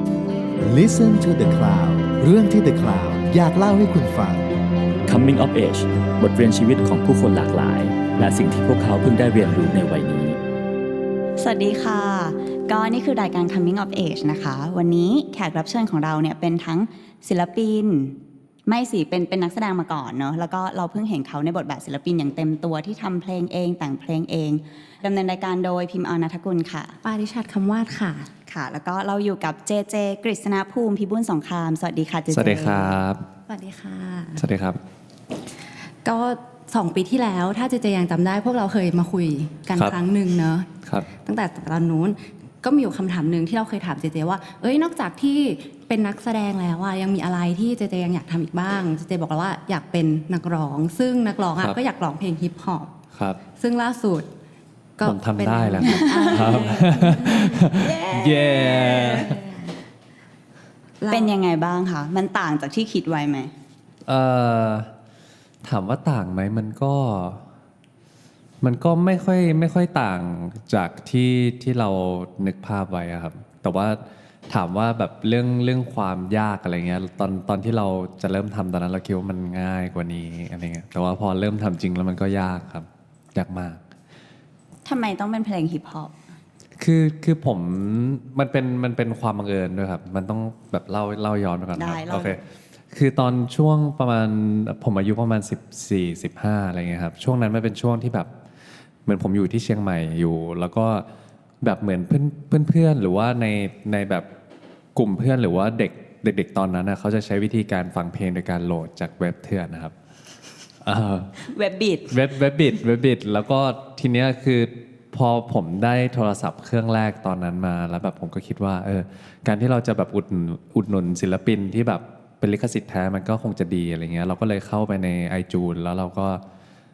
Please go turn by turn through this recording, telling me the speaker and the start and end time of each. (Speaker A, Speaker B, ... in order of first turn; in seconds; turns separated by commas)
Speaker A: 0.6-4.5, Speaker B: 5.1-10.4, Speaker C: 11.4-27.0, Speaker D: 27.0-28.3, Speaker C: 28.5-33.0, Speaker E: 32.3-33.3, Speaker D: 33.5-34.4, Speaker E: 34.4-34.8, Speaker D: 36.0-52.9, Speaker E: 40.8-41.1, Speaker E: 53.1-53.4, Speaker D: 53.5-54.3, Speaker D: 55.0-57.6, Speaker E: 55.0-59.4, Speaker C: 55.8-59.7, Speaker D: 61.0-61.3, Speaker C: 61.1-63.5, Speaker E: 64.0-64.9, Speaker E: 65.6-67.4, Speaker E: 68.6-83.8, Speaker C: 84.8-86.2, Speaker E: 86.8-92.4, Speaker C: 91.8-92.4, Speaker E: 92.9-98.3, Speaker E: 99.0-101.1, Speaker E: 101.6-104.3, Speaker E: 104.9-109.9, Speaker E: 110.8-111.4, Speaker C: 111.4-112.1, Speaker E: 112.1-126.4